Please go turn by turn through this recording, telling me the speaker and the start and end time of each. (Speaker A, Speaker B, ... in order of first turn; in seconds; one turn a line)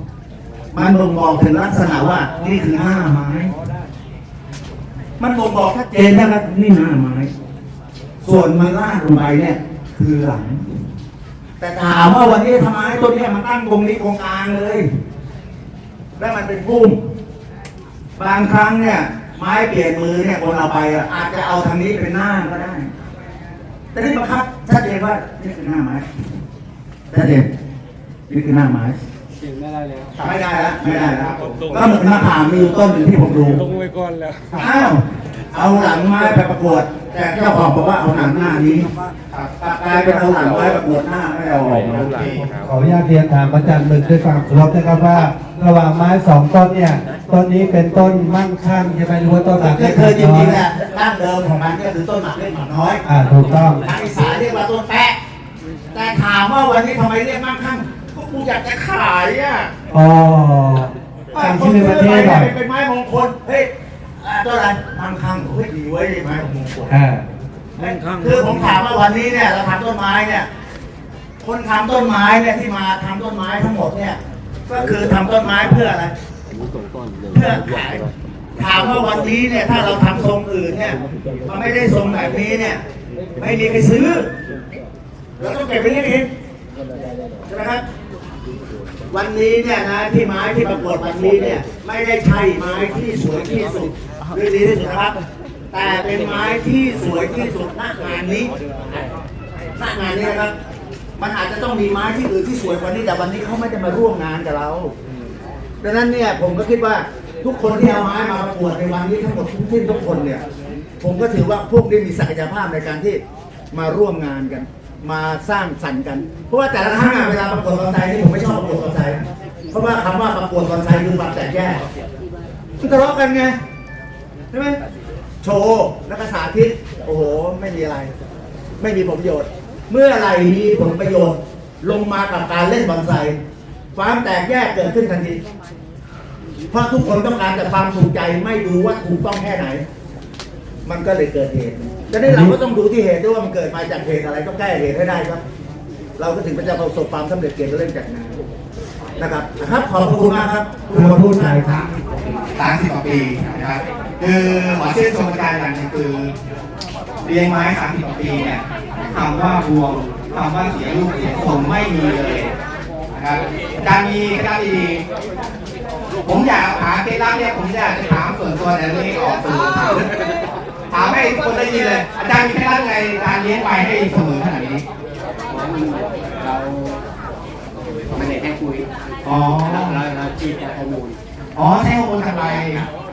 Speaker A: 0.7-3.5
Speaker A: 5.2-7.3
Speaker A: 8.2-10.6
Speaker A: 11.6-14.9
Speaker A: 16.2-17.0
Speaker A: 18.2-22.9
Speaker A: 23.9-26.1
Speaker A: 27.1-27.5
Speaker A: 28.3-29.0
Speaker B: 29.5-30.0
Speaker A: 30.2-33.7
Speaker C: 31.0-31.7
Speaker A: 34.5-38.9
Speaker C: 39.3-40.7
Speaker A: 39.6-42.4
Speaker C: 42.1-42.6
Speaker B: 42.4-50.6
Speaker A: 49.6-55.2
Speaker B: 53.0-53.8
Speaker A: 55.9-59.7
Speaker B: 59.9-62.5
Speaker A: 61.3-66.9
Speaker B: 66.9-67.2
Speaker A: 68.1-70.5
Speaker A: 71.4-76.1
Speaker A: 77.3-82.8
Speaker A: 83.4-84.3
Speaker A: 85.4-86.3
Speaker A: 87.5-87.8
Speaker A: 89.1-95.2
Speaker A: 95.7-98.5
Speaker A: 99.8-100.5
Speaker A: 101.2-104.9
Speaker A: 105.8-110.4
Speaker A: 111.0-119.2
Speaker A: 119.7-121.8
Speaker A: 122.8-123.6
Speaker A: 124.5-124.8
Speaker A: 125.4-128.1
Speaker A: 128.8-133.4
Speaker A: 133.9-135.4
Speaker A: 136.7-139.8
Speaker A: 140.8-145.4
Speaker B: 142.2-142.6
Speaker A: 146.2-148.4
Speaker A: 149.2-151.8
Speaker B: 150.9-151.9
Speaker C: 152.6-156.3
Speaker C: 157.2-162.5
Speaker C: 163.1-165.0
Speaker C: 166.2-170.1
Speaker C: 170.9-174.8
Speaker D: 175.5-177.0
Speaker D: 178.1-181.2
Speaker C: 179.2-180.0
Speaker C: 181.6-182.9